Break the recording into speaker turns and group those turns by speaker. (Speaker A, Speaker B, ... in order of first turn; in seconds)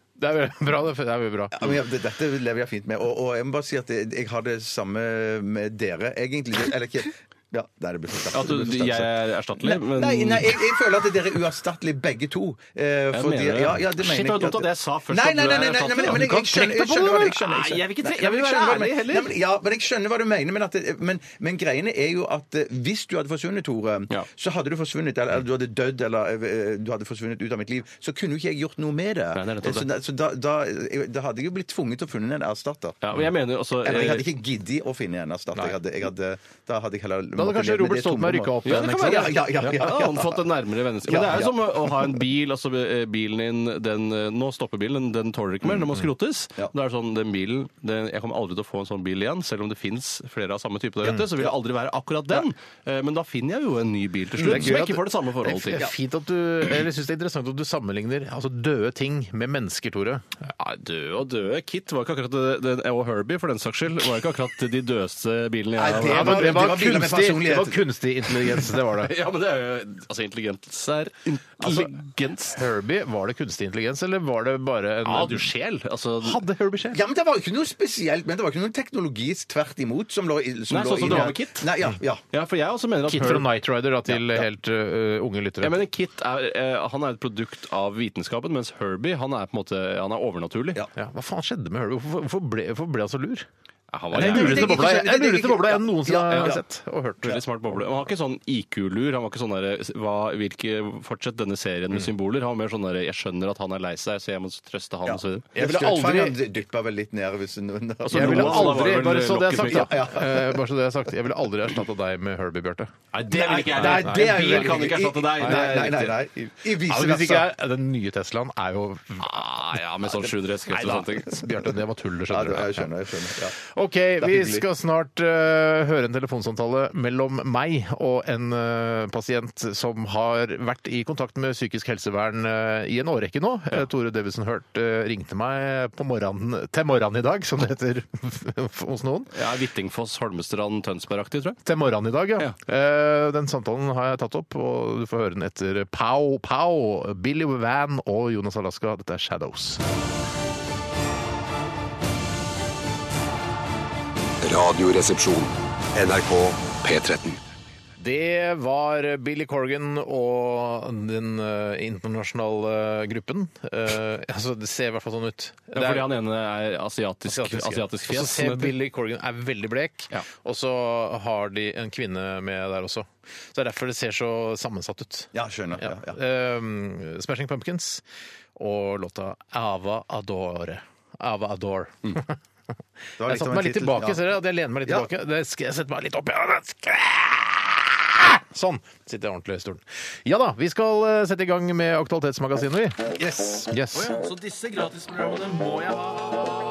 Speaker A: 0.2-1.6, 16.1-16.9, 37.4-39.7, 54.4-60.2, 65.9-69.1, 71.6-72.0, 72.5-75.5, 76.2-77.0, 81.1-81.3, 83.1-85.8, 91.0-93.5, 94.1-97.4, 105.5-106.4, 108.1-116.1, 116.8-119.4, 120.7-122.9, 123.6-139.3, 141.7-149.8, 158.0-166.1, 167.3-178.0, 178.6-182.4, 183.2-193.1, 193.7-194.2
Speaker B: 1.5-33.0, 33.8-40.4, 41.0-42.2, 51.1-51.5, 54.4-54.9, 65.8-67.8, 76.9-82.2, 84.1-84.5, 94.1-96.6, 105.1-108.9, 109.5-110.6, 113.3-117.5, 122.3-123.5, 124.2-124.6, 175.3-176.2, 183.2-184.2, 193.2-193.7
Speaker C: 8.3-10.6, 13.1-19.3, 29.4-29.9, 33.0-34.3, 38.6-55.8, 60.6-66.7, 69.0-72.6, 75.0-76.4, 80.7-81.7, 82.3-83.5, 85.6-90.8, 93.9-94.9, 97.2-105.5, 108.0-110.0, 113.1-116.2, 119.2-121.4, 139.3-141.6, 165.8-168.8, 193.9-196.4
Speaker D: 154.4-157.4